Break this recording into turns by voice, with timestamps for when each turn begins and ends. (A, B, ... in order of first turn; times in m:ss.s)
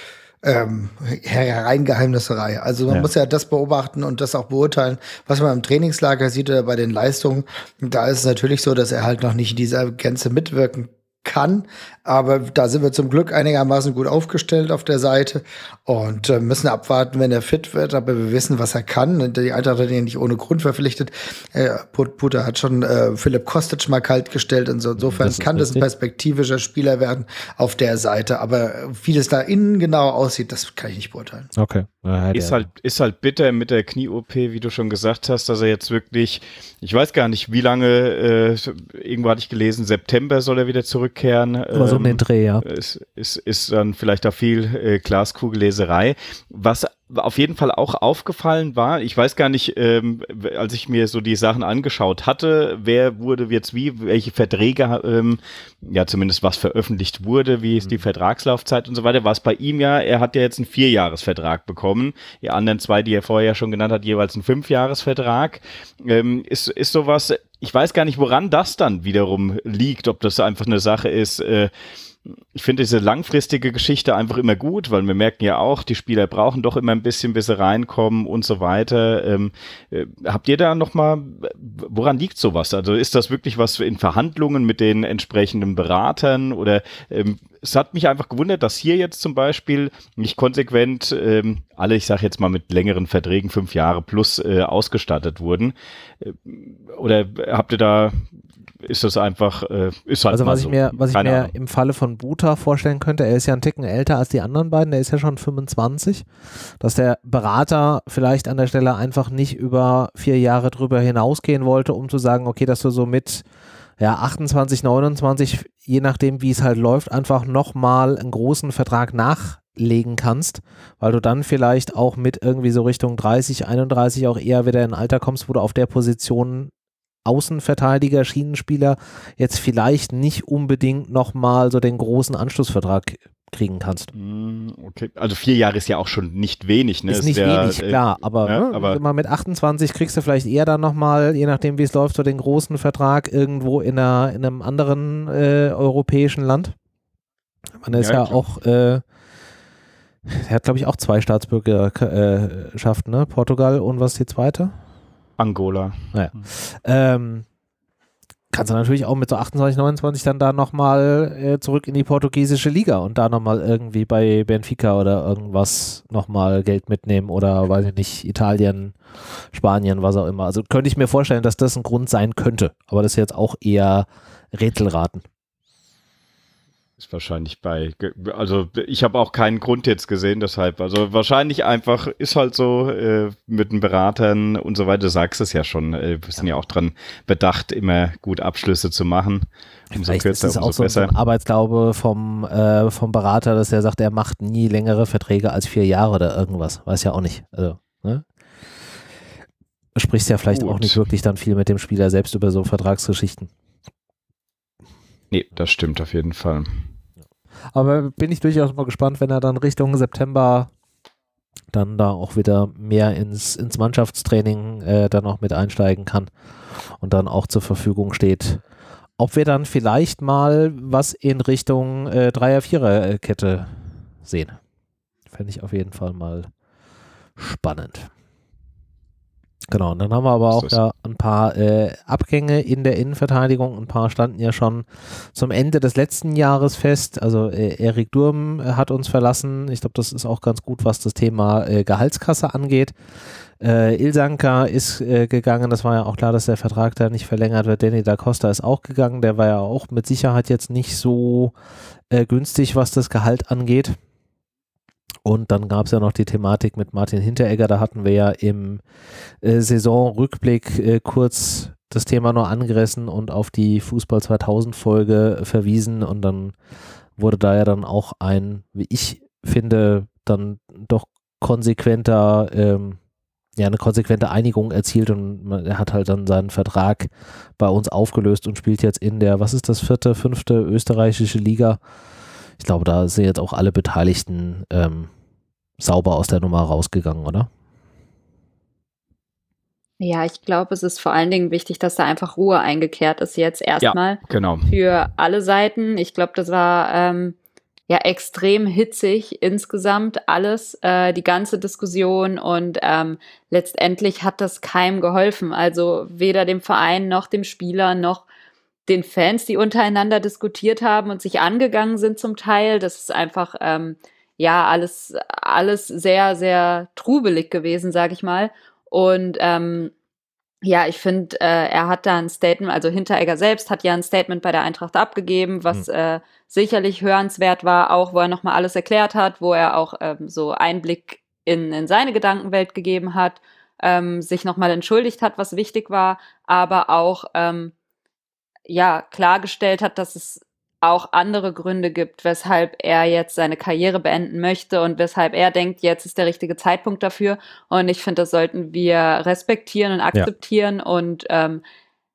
0:00.4-0:31.5 A
0:25.0-0:25.9 B
0:31.5-0:32.6 B
0:32.3-1:11.7 C
0:41.7-0:42.6 B
1:12.2-1:38.3 C
1:38.8-1:41.5 C
1:40.3-1:46.3 B
1:46.8-1:53.4 B
1:54.0-2:06.7 B
2:07.2-2:14.1 B
2:14.1-2:19.0 C
2:17.1-2:26.8 B
2:27.8-2:29.0 B
2:27.9-2:28.4 C
2:30.3-2:34.7 B
2:35.4-2:36.5 C
2:36.1-2:37.4 B
2:38.5-2:49.0 B
2:49.5-2:55.2 B
2:57.0-3:11.1 C
3:09.9-3:18.2 B
3:19.9-3:23.5 B
3:20.5-3:21.0 C
3:25.3-3:26.8 C
3:27.7-3:30.7 B
3:31.7-3:38.6 B
3:39.2-3:44.6 B
3:45.3-3:46.5 B
3:47.4-3:48.1 B
3:49.7-4:03.0 B
3:50.5-3:50.8 C
4:03.6-4:11.5 B
4:12.1-4:14.0 B
4:15.2-4:18.8 B
4:19.4-4:26.6 B
4:27.2-4:33.0 B
4:33.6-4:41.8 B
4:42.6-4:45.1 B
4:45.8-4:47.5 B
4:50.0-4:57.4 D
4:53.8-4:54.8 C
4:57.9-5:08.2 D
5:08.9-5:19.9 D
5:20.6-5:37.7 D
5:38.7-5:51.6 D